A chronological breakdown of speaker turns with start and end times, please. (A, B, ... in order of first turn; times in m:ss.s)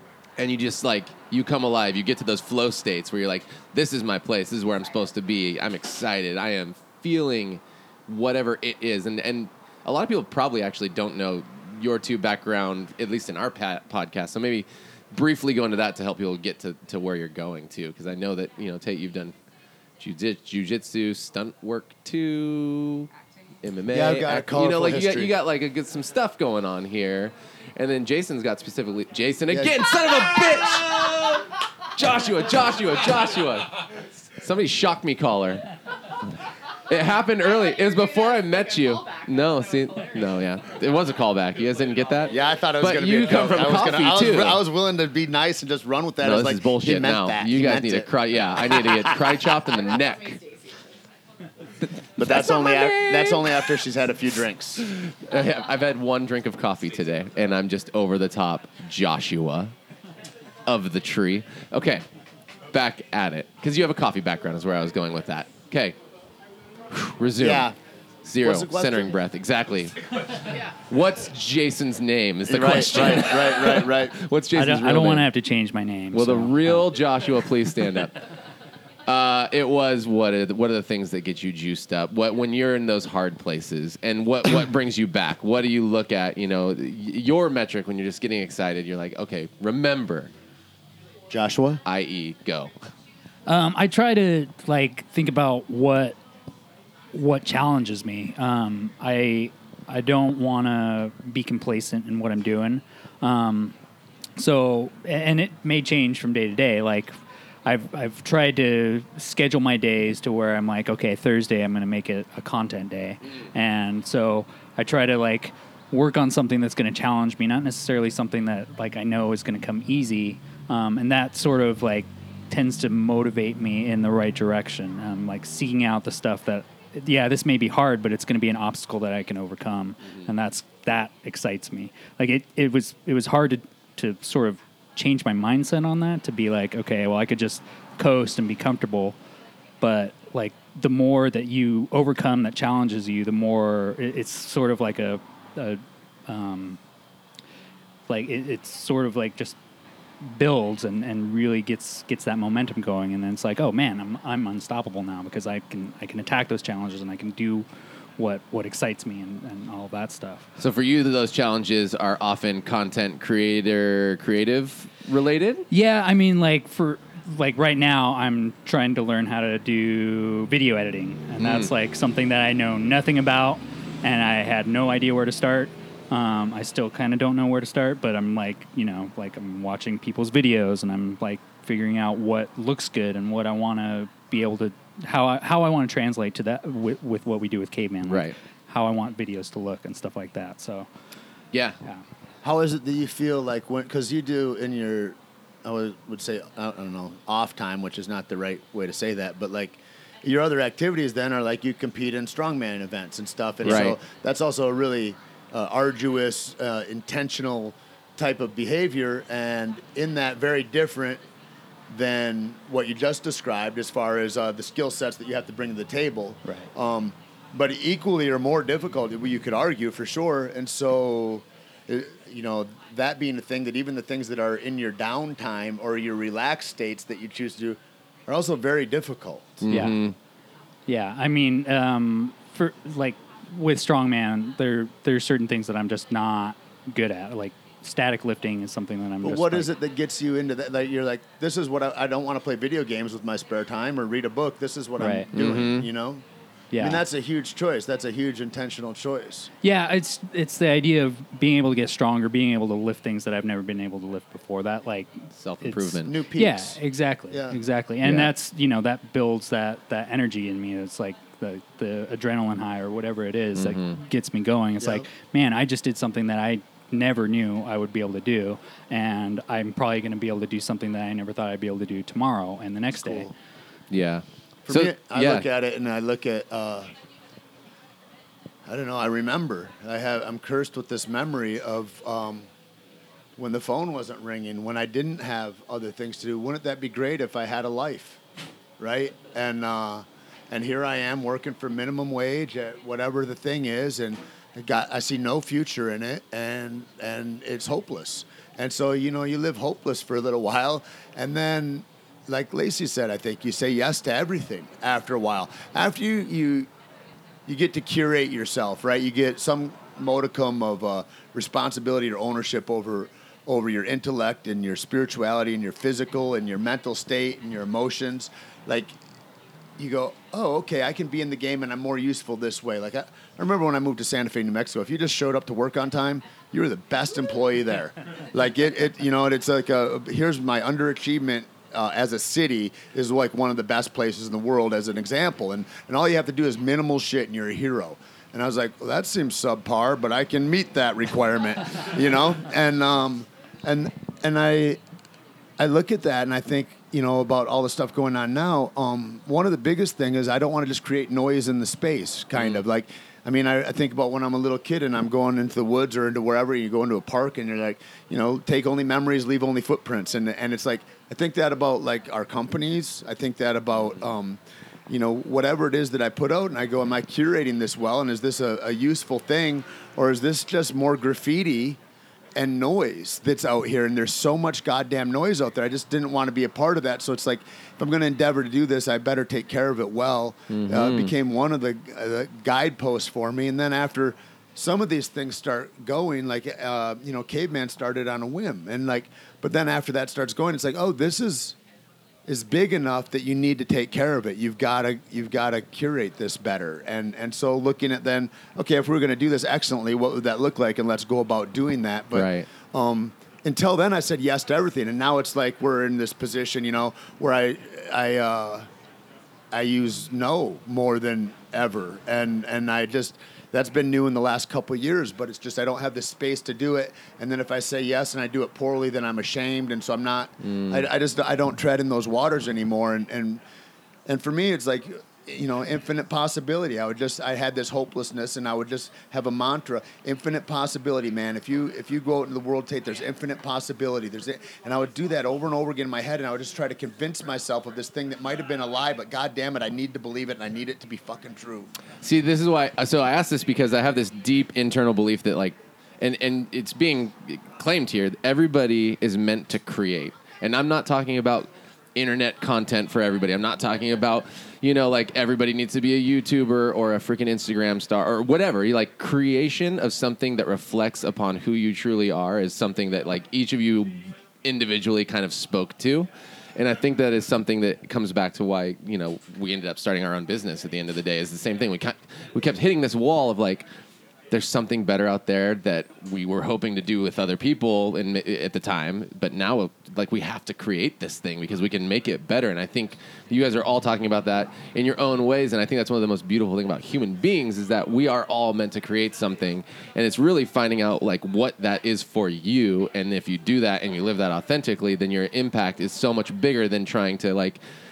0:00.4-0:19.4 A
0:20.0-0:23.1 A
0:23.6-0:35.7 A
0:23.9-0:25.3 B
0:29.5-0:29.8 B
0:36.9-0:44.6 A
0:42.3-0:49.7 B
0:46.2-0:50.4 A
0:52.2-0:54.9 B
0:52.2-0:53.7 A
0:54.8-0:59.7 A
1:00.7-1:02.1 A
1:02.7-1:06.0 A
1:06.9-1:07.7 A
1:07.4-1:07.8 B
1:08.2-1:15.3 A
1:08.4-1:09.2 B
1:12.5-1:14.2 B
1:14.5-1:16.8 C
1:16.1-1:18.2 A
1:19.1-1:30.3 A
1:31.3-1:31.8 B
1:31.8-1:32.8 A
1:33.5-1:36.2 C
1:37.1-1:43.8 C
1:44.4-2:19.2 C
2:19.8-2:26.8 C
2:28.1-2:29.6 C
2:30.2-2:37.7 C
2:38.2-2:40.5 C
2:40.6-2:45.7 A
2:45.7-3:10.9 C
2:51.4-2:51.7 A
3:08.1-3:08.4 A
3:11.5-3:11.8 A
3:12.4-3:31.2 B
3:23.6-3:24.0 A
3:31.9-3:49.7 B
3:49.6-3:50.2 A
3:49.7-3:50.0 C
3:50.9-3:59.7 C
3:59.2-4:06.2 B
4:05.0-4:05.3 C
4:05.3-4:05.9 A
4:06.7-4:07.0 C
4:06.8-4:09.5 B
4:09.6-4:33.3 C
4:15.4-4:16.2 A
4:16.0-4:16.8 B
4:17.3-4:17.6 B
4:18.0-4:18.3 A
4:23.6-4:24.0 A
4:24.8-4:25.1 B
4:33.0-4:33.3 B
4:33.9-4:35.5 A
4:34.7-4:36.9 B
4:38.7-4:42.5 B
4:43.4-4:48.2 B
4:48.8-5:06.7 B
5:07.5-5:19.0 B
5:19.8-5:44.8 B
5:45.6-6:11.8 B
6:12.4-6:31.6 B
6:20.5-6:21.1 A
6:32.3-6:48.7 B
6:42.2-6:42.5 A
6:49.5-7:03.4 B
7:00.4-7:00.9 A
7:04.1-7:21.7 B
7:22.0-7:53.6 A
7:54.3-8:17.6 A